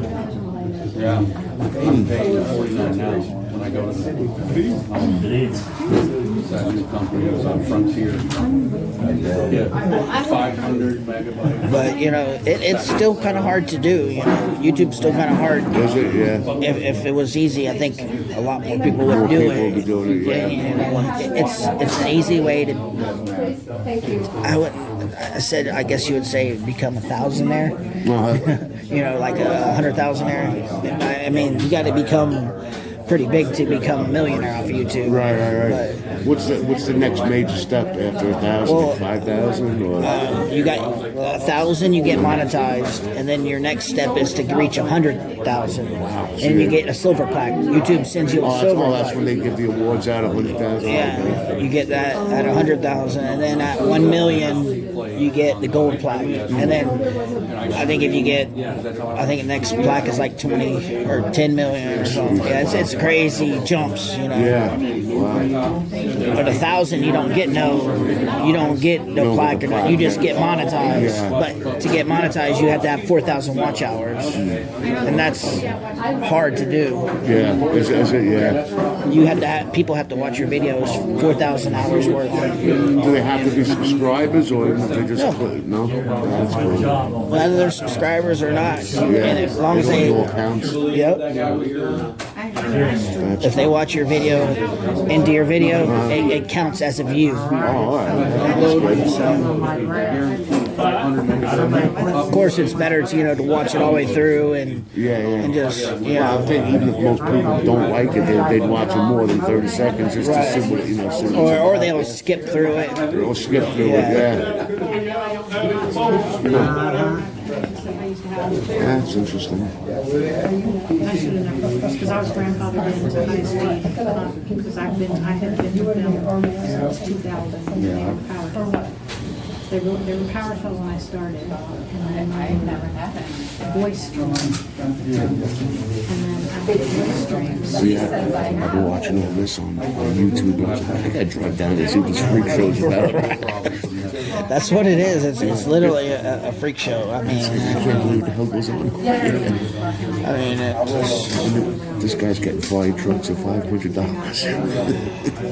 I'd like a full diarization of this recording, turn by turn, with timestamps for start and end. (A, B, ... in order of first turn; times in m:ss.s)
0:00.9-0:01.3 A
0:01.8-0:05.6 A
0:01.8-0:02.1 B
0:06.4-0:08.3 A
0:09.5-0:11.8 A
0:11.7-0:22.8 C
0:15.7-0:16.5 B
0:18.9-0:20.7 B
0:24.4-0:27.8 C
0:28.0-0:28.4 B
0:28.3-0:32.5 C
0:33.1-0:36.0 C
0:35.0-0:40.2 B
0:38.6-0:39.1 C
0:40.0-0:49.2 C
0:42.1-0:42.4 B
0:46.0-0:46.8 B
0:48.4-0:51.5 B
0:50.8-0:56.9 C
0:55.1-0:55.8 A
0:56.5-0:56.8 B
0:56.5-0:56.8 A
0:57.5-0:58.2 A
0:57.7-0:58.6 C
0:59.2-1:04.6 C
1:02.0-1:03.0 B
1:04.3-1:05.5 B
1:05.1-1:05.4 A
1:06.2-1:06.5 A
1:06.3-1:14.4 C
1:09.1-1:10.3 B
1:10.9-1:11.4 B
1:11.0-1:11.9 A
1:14.4-1:14.6 B
1:15.0-1:15.6 C
1:16.2-1:17.1 C
1:17.2-1:18.6 B
1:18.2-1:19.4 A
1:19.1-1:22.6 C
1:22.1-1:24.1 A
1:22.9-1:27.0 B
1:25.2-1:25.4 C
1:27.3-1:30.2 C
1:29.0-1:30.8 B
1:30.9-1:31.2 C
1:31.3-1:31.6 A
1:33.2-1:33.8 B
1:33.4-1:37.6 C
1:35.8-1:36.3 B
1:37.6-1:39.4 B
1:38.1-1:42.4 A
1:38.6-1:39.4 C
1:42.3-1:46.5 C
1:45.0-1:45.6 B
1:46.1-1:52.0 B
1:50.2-1:50.7 C
1:51.3-1:53.0 C
1:53.1-1:54.5 B
1:53.8-1:54.3 C
1:56.4-1:56.8 B
1:56.6-1:57.2 C
1:57.7-1:58.5 D
1:58.8-1:59.7 B
2:01.0-2:06.2 D
2:07.2-2:07.5 D
2:07.8-2:08.2 A
2:09.7-2:12.4 D
2:13.8-2:14.3 D
2:16.1-2:17.6 D
2:17.7-2:23.3 B
2:22.4-2:23.5 C
2:23.0-2:24.2 A
2:24.5-2:28.2 C
2:25.4-2:26.0 B
2:27.3-2:29.6 B
2:30.2-2:31.3 C
2:31.3-2:35.2 B